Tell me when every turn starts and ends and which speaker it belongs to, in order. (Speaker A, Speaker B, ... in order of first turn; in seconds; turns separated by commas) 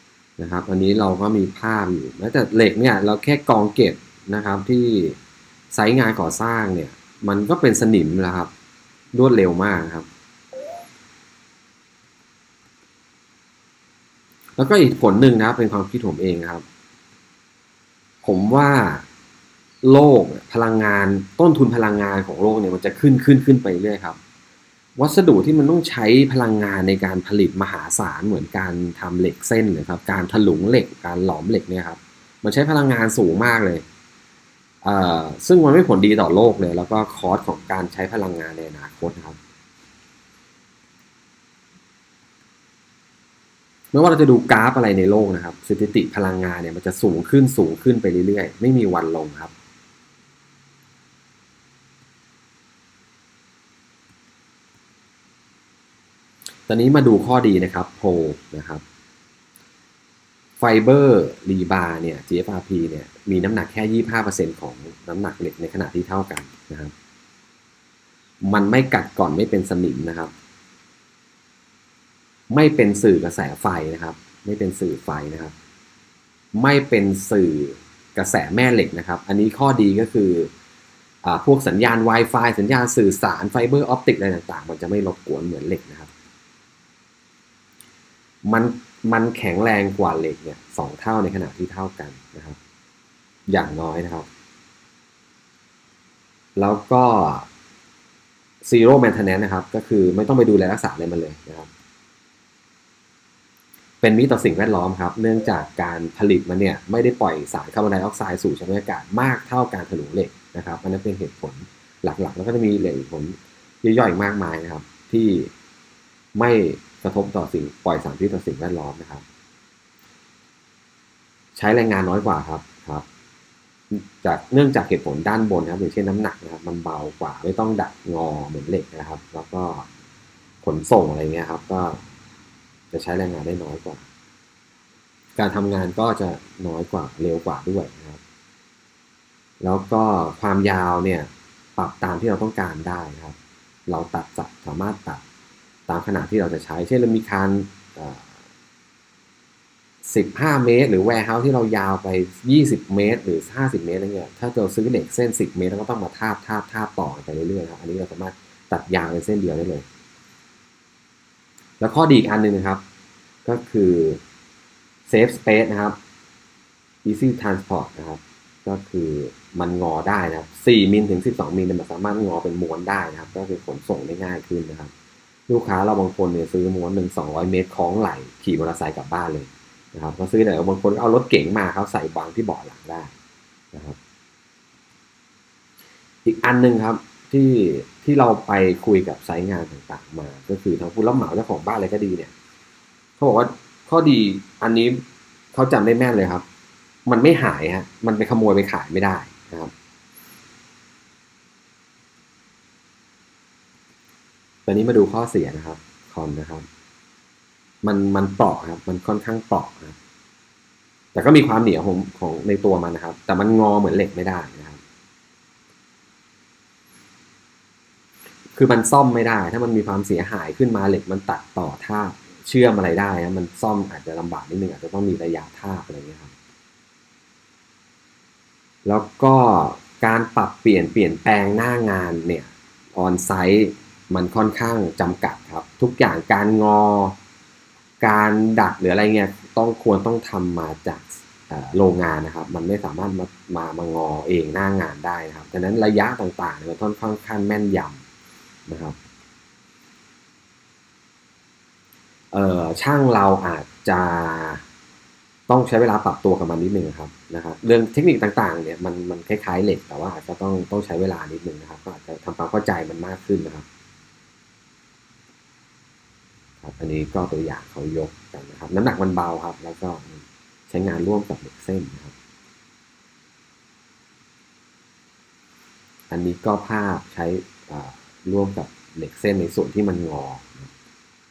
Speaker A: 0.4-5.2, Speaker A: 5.7-8.5, Speaker A: 9.1-10.1, Speaker A: 14.6-16.6, Speaker A: 18.2-19.1, Speaker A: 19.8-24.2, Speaker A: 24.9-33.8, Speaker A: 34.8-39.4, Speaker A: 43.9-49.5, Speaker A: 56.7-58.8, Speaker A: 60.6-66.9, Speaker A: 68.4-70.3, Speaker A: 72.5-75.5, Speaker A: 76.5-80.5, Speaker A: 81.2-86.1, Speaker A: 88.4-92.6, Speaker A: 93.5-94.3, Speaker A: 96.5-97.5, Speaker A: 98.6-101.7, Speaker A: 104.0-115.5, Speaker A: 116.3-119.2, Speaker A: 121.5-123.0, Speaker A: 123.9-129.9, Speaker A: 130.6-132.0, Speaker A: 132.9-134.0, Speaker A: 135.4-138.2, Speaker A: 139.6-143.3, Speaker A: 143.9-145.2, Speaker A: 145.9-148.3, Speaker A: 150.0-159.8, Speaker A: 161.8-162.8, Speaker A: 163.4-164.2, Speaker A: 165.1-165.9, Speaker A: 167.0-174.9, Speaker A: 175.5-183.1, Speaker A: 186.2-192.3, Speaker A: 193.2-196.4, Speaker A: 197.1-199.7, Speaker A: 204.7-206.7, Speaker A: 207.8-209.9, Speaker A: 211.1-214.8, Speaker A: 218.5-226.3, Speaker A: 228.8-237.2, Speaker A: 238.0-248.0, Speaker A: 248.7-248.9, Speaker A: 252.3-254.6, Speaker A: 255.5-263.6, Speaker A: 266.6-272.1, Speaker A: 276.1-280.7